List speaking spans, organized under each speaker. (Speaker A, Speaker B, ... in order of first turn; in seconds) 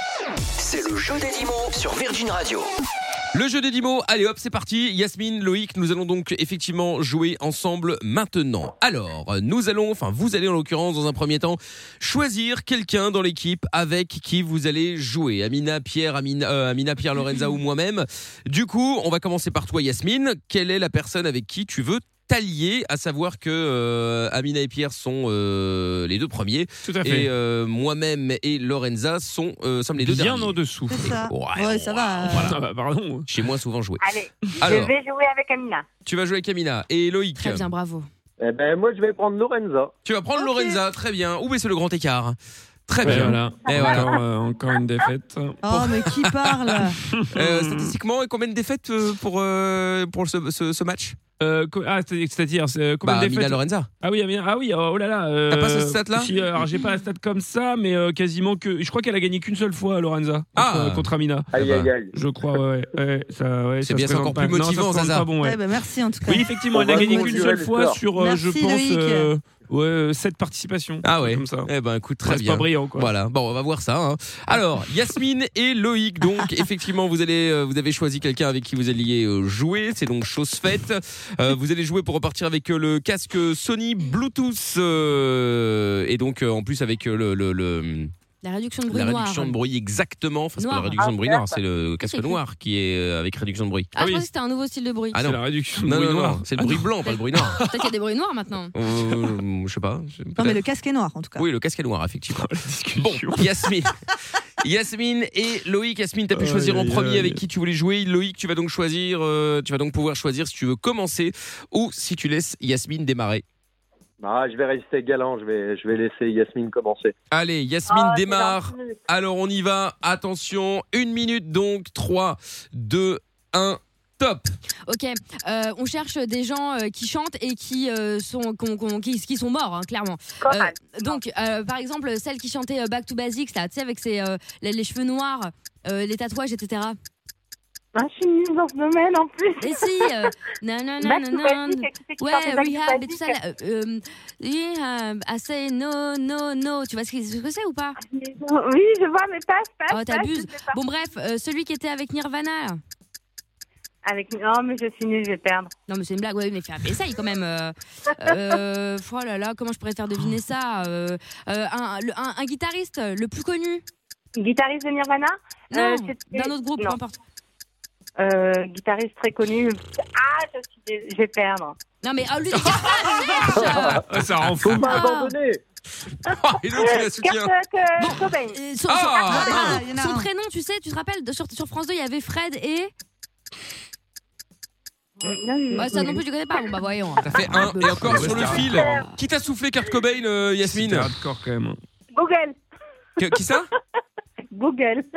Speaker A: 0.6-2.7
Speaker B: 3.3-32.6, 33.3-34.0, 34.6-35.0, 36.0-37.6, 40.0-44.0, 45.7-46.7, 47.4-51.2, 53.0-53.9, 55.5-56.3, 60.5-61.1, 61.6-61.9, 63.8-65.3, 71.0-88.1, 88.9-93.9, 95.1-97.6, 98.8-100.6, 101.4-102.4, 103.0-103.9, 104.6-113.4, 117.3-124.5, 176.2-177.5, 178.9-179.8, 187.2-191.1, 193.2-193.7
Speaker C: 26.8-27.3, 30.0-31.1, 32.2-33.3, 34.4-34.7, 43.0-45.6, 47.0-47.8, 51.4-65.6, 66.2-71.7, 72.2-73.1, 94.0-94.3, 95.2-97.7, 102.3-103.7, 106.3-107.4, 173.9-175.0, 188.1-188.9, 190.6-191.8
Speaker D: 30.9-32.5, 45.6-47.0, 65.4-67.5, 68.1-69.3, 100.4-101.5, 178.6-180.3
Speaker E: 34.0-35.9, 43.8-44.1, 91.0-91.6, 117.9-119.0, 130.4-131.2, 137.9-140.1, 141.0-143.4, 148.0-150.8, 154.1-155.7, 164.4-167.0, 168.2-171.8, 176.7-178.6, 185.2-186.2, 188.5-189.1, 192.1-192.6, 194.5-195.1
Speaker F: 37.4-38.1, 88.4-89.6, 90.6-91.1, 92.0-92.4, 94.0-95.2, 96.7-97.2, 97.7-98.7, 124.9-137.0, 139.6-148.0, 149.9-152.8, 155.9-163.8, 165.7-167.2, 172.0-174.0, 174.8-175.3, 178.8-182.9, 185.7-189.1
Speaker G: 38.4-39.9, 61.5-62.1, 66.7-68.1, 114.2-117.1, 173.4-175.6